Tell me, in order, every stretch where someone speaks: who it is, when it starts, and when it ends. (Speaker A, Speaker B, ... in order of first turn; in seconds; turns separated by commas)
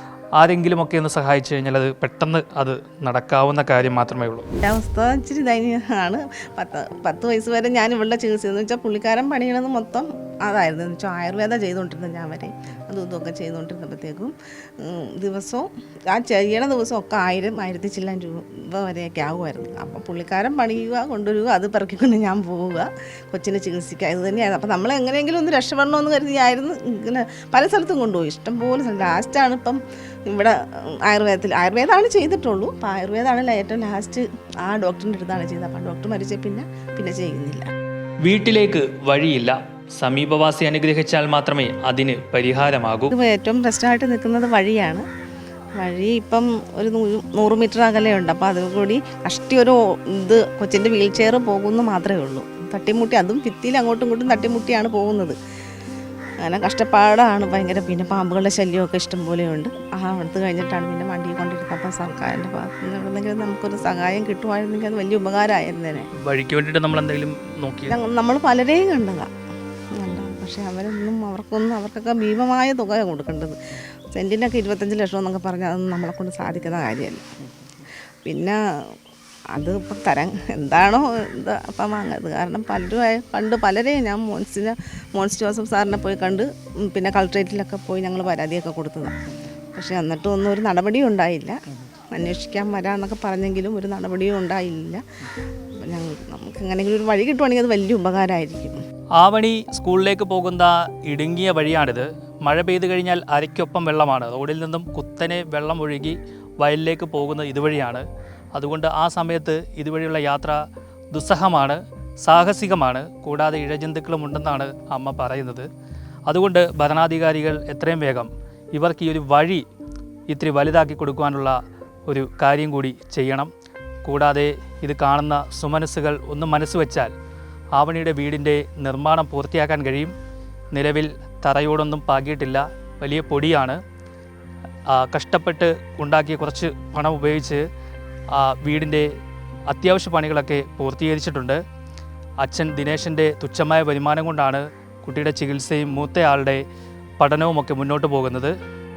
Speaker A: 0.4-4.5, Speaker B: 4.6-37.7, Speaker A: 38.2-43.1, Speaker B: 43.1-45.0, Speaker B: 45.8-55.4, Speaker B: 56.4-66.1, Speaker A: 66.2-68.0, Speaker B: 67.9-69.3, Speaker B: 70.0-73.6, Speaker B: 74.1-77.2, Speaker B: 78.2-78.6, Speaker B: 79.5-89.2, Speaker B: 89.7-91.6, Speaker B: 92.1-95.0, Speaker B: 95.8-98.8, Speaker A: 99.2-110.6, Speaker A: 111.1-115.7, Speaker A: 116.3-119.6, Speaker A: 120.3-121.5, Speaker A: 122.1-123.5, Speaker A: 124.0-127.1, Speaker A: 127.8-130.1, Speaker A: 130.7-133.8, Speaker A: 134.9-137.6, Speaker A: 138.3-139.1, Speaker A: 139.7-141.6, Speaker A: 142.4-146.6, Speaker A: 147.2-148.5